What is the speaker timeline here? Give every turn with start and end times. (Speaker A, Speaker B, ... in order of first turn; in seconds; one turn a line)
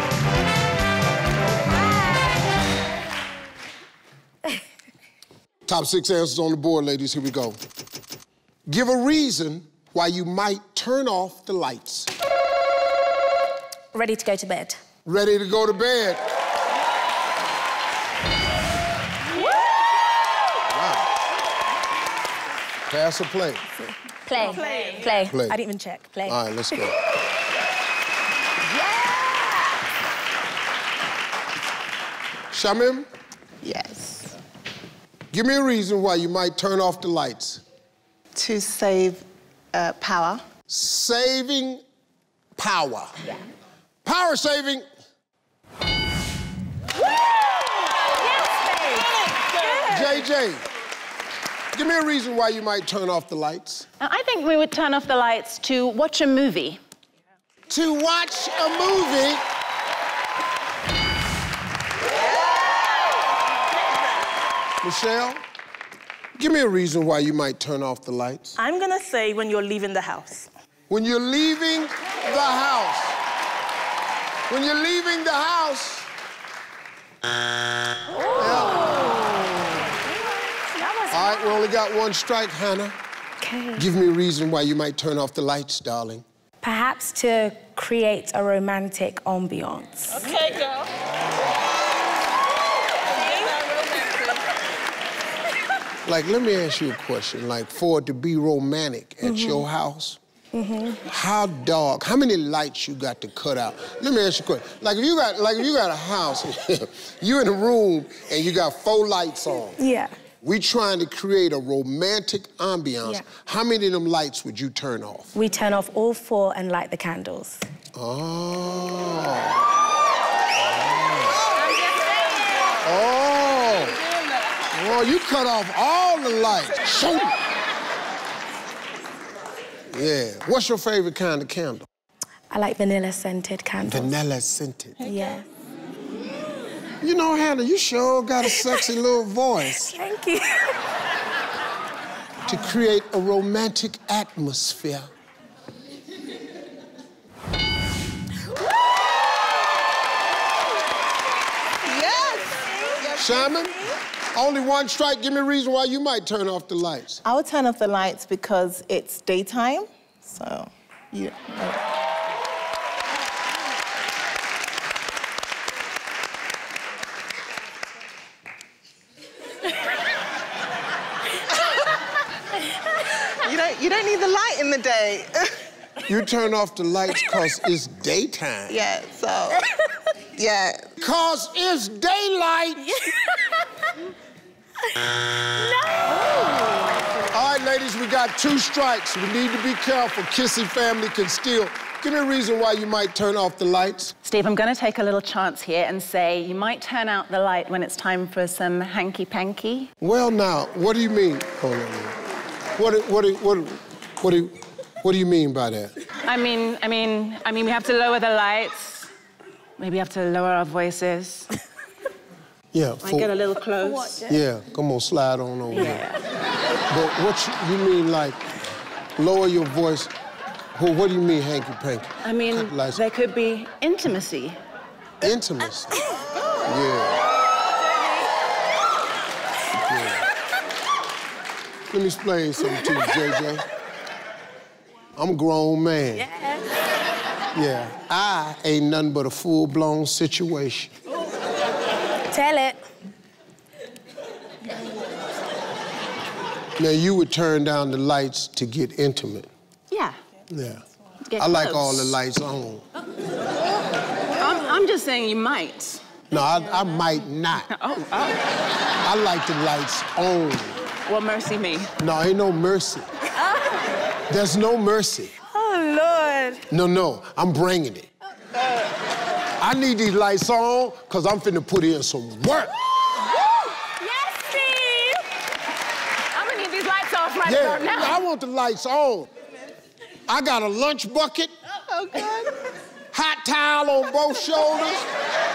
Speaker A: 5.7-7.6
Speaker A: 8.7-12.1
Speaker B: 13.9-14.8
Speaker A: 15.1-16.2
Speaker A: 20.7-21.1
Speaker A: 22.9-23.6
Speaker B: 24.1-26.4
Speaker C: 24.4-25.2
Speaker A: 25.2-25.6
Speaker A: 26.3-27.0
Speaker A: 32.5-33.1
Speaker D: 33.6-34.3
Speaker A: 35.3-37.6
Speaker D: 38.4-40.4
Speaker A: 40.7-41.8
Speaker A: 42.6-43.2
Speaker A: 44.0-44.8
Speaker B: 47.7-50.2
Speaker A: 49.9-50.6
Speaker A: 51.7-53.9
Speaker E: 54.0-56.8
Speaker A: 57.7-59.4
Speaker A: 64.8-65.4
Speaker A: 66.4-68.6
Speaker C: 68.6-70.5
Speaker A: 70.9-73.2
Speaker A: 74.5-76.1
Speaker B: 78.1-81.6
Speaker A: 78.3-79.1
Speaker A: 81.1-83.0
Speaker B: 83.4-83.9
Speaker A: 83.8-86.2
Speaker B: 86.6-90.4
Speaker A: 96.0-100.2
Speaker B: 99.2-99.7
Speaker B: 100.5-101.0
Speaker A: 101.0-109.8
Speaker B: 109.8-110.1
Speaker A: 110.4-115.4
Speaker B: 115.3-117.7
Speaker A: 118.0-119.6
Speaker A: 120.6-121.5
Speaker A: 122.8-124.0
Speaker A: 124.7-127.3
Speaker A: 129.9-131.9
Speaker B: 132.5-134.2
Speaker A: 133.8-135.0
Speaker B: 135.0-135.5
Speaker A: 137.0-139.9
Speaker B: 138.4-138.7
Speaker B: 139.8-140.8
Speaker A: 142.4-145.1
Speaker D: 151.8-153.7
Speaker A: 153.2-157.2
Speaker D: 157.2-161.8
Speaker D: 173.3-175.6
Speaker A: 176.1-178.8
Speaker D: 178.7-179.7
Speaker D: 180.3-180.9
Speaker A: 181.0-183.0
Speaker B: 183.1-183.7
Speaker B: 185.6-187.2
Speaker A: 187.3-194.1
Speaker E: 194.2-199.9
Speaker A: 200.0-202.2
Speaker A: 202.8-205.9
Speaker E: 206.2-209.1
Speaker E: 209.8-211.5
Speaker A: 212.7-213.3
Speaker E: 213.0-214.3
Speaker B: 213.8-214.4
Speaker A: 214.3-216.1
Speaker E: 215.7-216.1
Speaker A: 216.9-218.4
Speaker A: 219.2-220.1
Speaker A: 220.8-223.0
Speaker E: 222.2-224.6
Speaker A: 225.2-226.1
Speaker A: 226.6-227.3
Speaker A: 229.7-230.3
Speaker A: 231.9-233.7
Speaker A: 235.2-236.3
Speaker B: 236.2-236.7
Speaker A: 237.5-240.9
Speaker B: 242.3-242.8
Speaker A: 246.8-249.5
Speaker E: 249.9-250.2
Speaker A: 250.5-250.8
Speaker E: 251.3-252.2
Speaker A: 251.4-252.8
Speaker E: 254.3-256.2
Speaker A: 256.3-257.7
Speaker E: 257.7-258.6
Speaker A: 259.0-260.8
Speaker E: 261.1-261.9
Speaker A: 262.0-263.1
Speaker B: 263.4-263.8
Speaker A: 264.3-265.3
Speaker B: 265.5-266.6
Speaker A: 266.7-268.1
Speaker A: 269.6-272.7
Speaker B: 273.9-275.2
Speaker E: 276.3-278.2
Speaker A: 277.4-279.3
Speaker A: 280.3-281.5
Speaker D: 281.9-282.5
Speaker A: 283.1-285.1